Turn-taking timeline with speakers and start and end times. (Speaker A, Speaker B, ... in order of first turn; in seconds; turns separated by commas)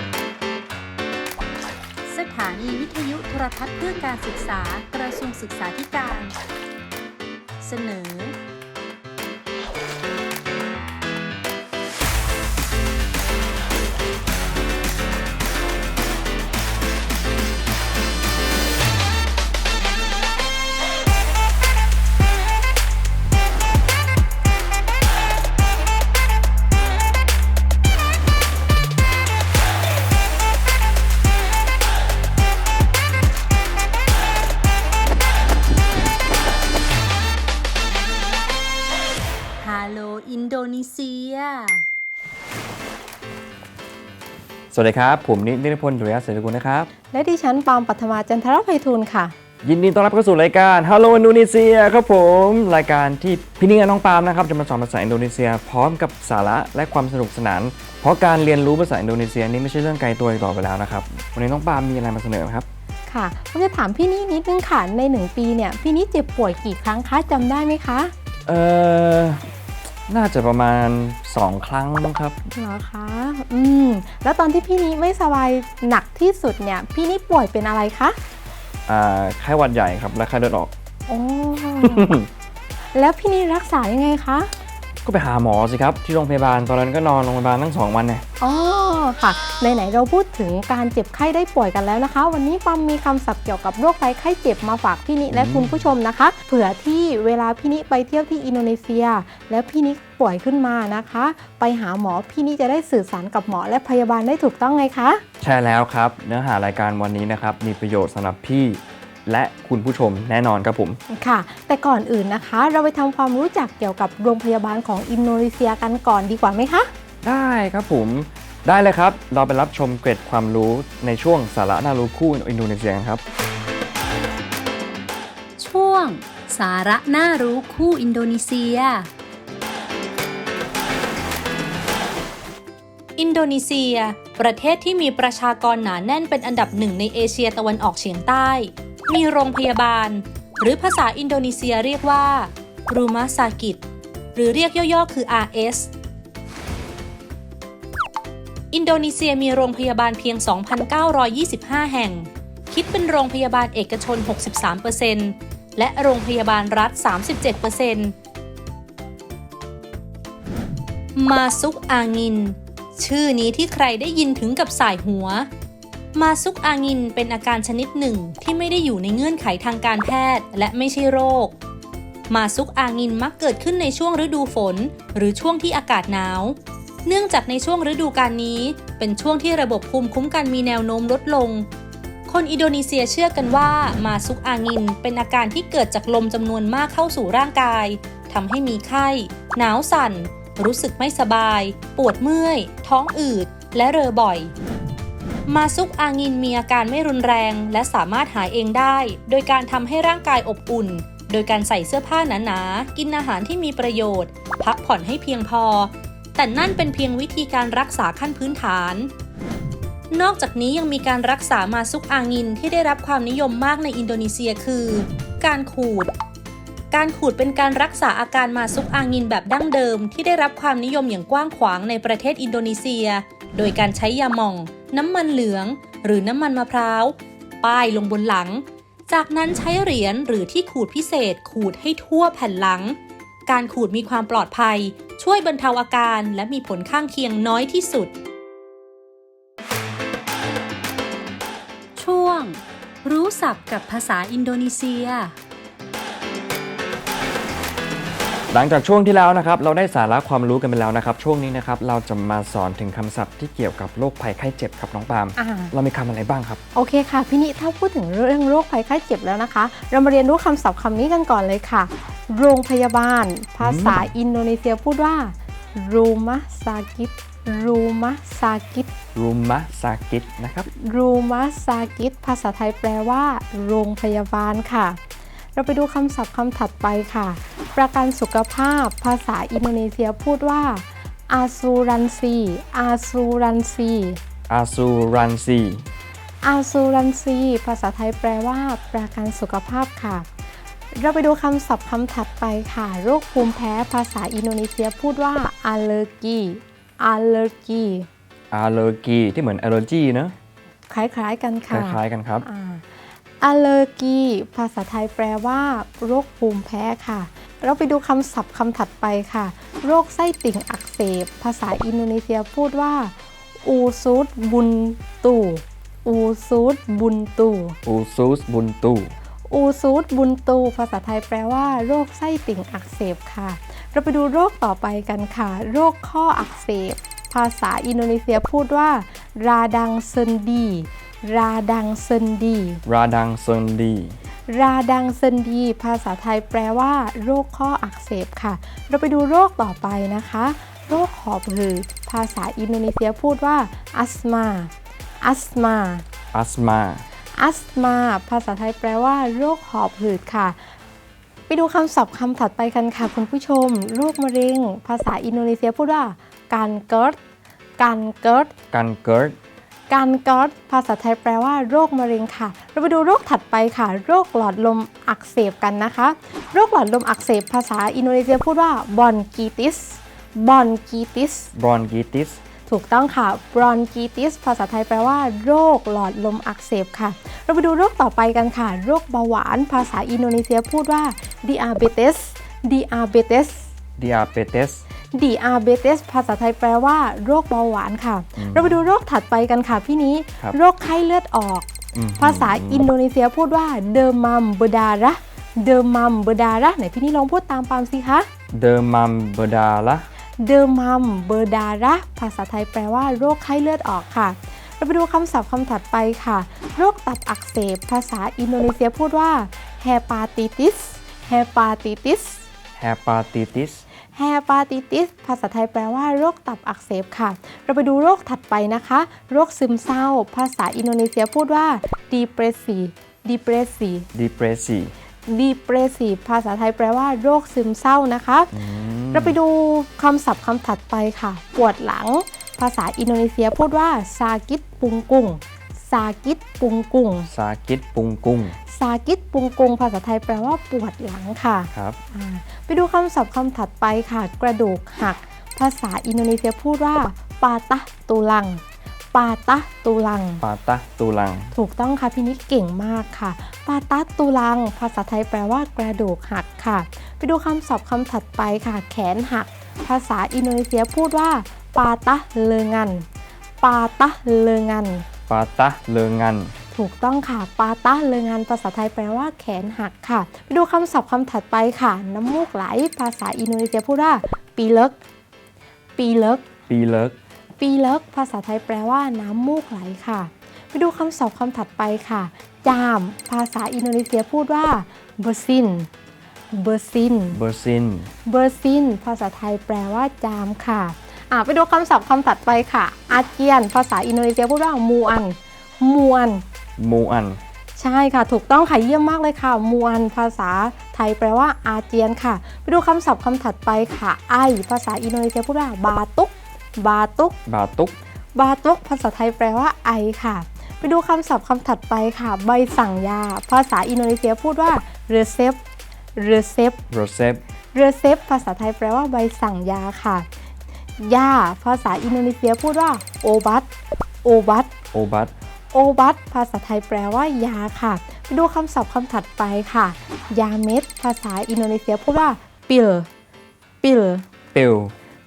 Speaker A: 2.1-6.4, Speaker A: 7.6-8.3, Speaker A: 39.6-41.8, Speaker B: 44.7-46.9, Speaker C: 47.1-49.3, Speaker B: 49.6-62.7, Speaker C: 63.1-68.1, Speaker B: 68.5-69.5, Speaker B: 70.1-72.3, Speaker C: 72.5-78.2, Speaker B: 78.9-80.7, Speaker C: 81.1-82.2, Speaker B: 81.8-82.3, Speaker C: 82.9-84.5, Speaker B: 85.0-88.2, Speaker C: 88.4-105.2, Speaker B: 95.3-95.8, Speaker B: 105.4-111.0, Speaker C: 111.1-116.9, Speaker B: 117.2-123.2, Speaker A: 125.6-129.1, Speaker A: 133.2-143.8, Speaker A: 144.3-145.9, Speaker A: 148.7-158.2, Speaker A: 161.2-165.5, Speaker A: 166.1-171.6, Speaker A: 172.3-181.7, Speaker A: 182.3-194.5, Speaker A: 195.5-209.1, Speaker A: 210.1-216.1, Speaker A: 216.9-238.1, Speaker A: 242.0-245.3, Speaker B: 248.5-256.6, Speaker C: 255.4-255.7, Speaker C: 256.7-268.9, Speaker B: 263.6-264.1, Speaker B: 269.1-270.7, Speaker C: 270.8-275.0, Speaker C: 275.6-284.2, Speaker B: 284.5-285.9, Speaker C: 286.4-290.2, Speaker C: 290.9-298.1, Speaker B: 298.5-300.3, Speaker C: 300.9-313.1, Speaker B: 301.7-302.4, Speaker C: 313.6-317.8, Speaker B: 317.9-319.1, Speaker C: 319.5-332.8, Speaker B: 332.9-334.2, Speaker C: 334.5-346.0, Speaker B: 346.3-347.1, Speaker C: 347.4-350.6, Speaker C: 351.5-357.2, Speaker C: 357.8-358.5, Speaker B: 358.7-359.4, Speaker C: 359.9-371.5, Speaker B: 371.6-372.4, Speaker C: 372.7-383.7, Speaker B: 384.0-384.8, Speaker C: 385.1-398.3, Speaker B: 388.4-388.8, Speaker B: 391.9-392.9, Speaker B: 398.5-400.1, Speaker C: 400.4-412.4, Speaker B: 412.8-413.8, Speaker C: 414.1-424.1, Speaker B: 424.1-424.9, Speaker C: 425.3-428.6, Speaker B: 428.5-429.4, Speaker C: 429.1-437.3, Speaker B: 437.3-438.6, Speaker C: 438.7-448.6, Speaker C: 449.1-450.4, Speaker B: 450.4-451.5, Speaker C: 451.5-463.1, Speaker C: 463.6-465.1, Speaker B: 465.3-466.5, Speaker C: 466.7-474.9, Speaker C: 476.0-476.4, Speaker B: 476.7-477.2, Speaker C: 477.6-485.9, Speaker C: 486.5-487.4, Speaker B: 487.3-488.1, Speaker C: 488.2-496.4, Speaker B: 496.8-497.4, Speaker C: 497.8-507.4, Speaker B: 507.5-508.0, Speaker C: 508.4-515.6, Speaker C: 516.2-516.8, Speaker B: 516.9-517.4, Speaker C: 517.7-520.2, Speaker C: 521.0-523.7, Speaker C: 524.2-524.7, Speaker B: 524.9-525.3, Speaker C: 525.7-533.1, Speaker C: 533.8-534.2, Speaker B: 534.5-534.9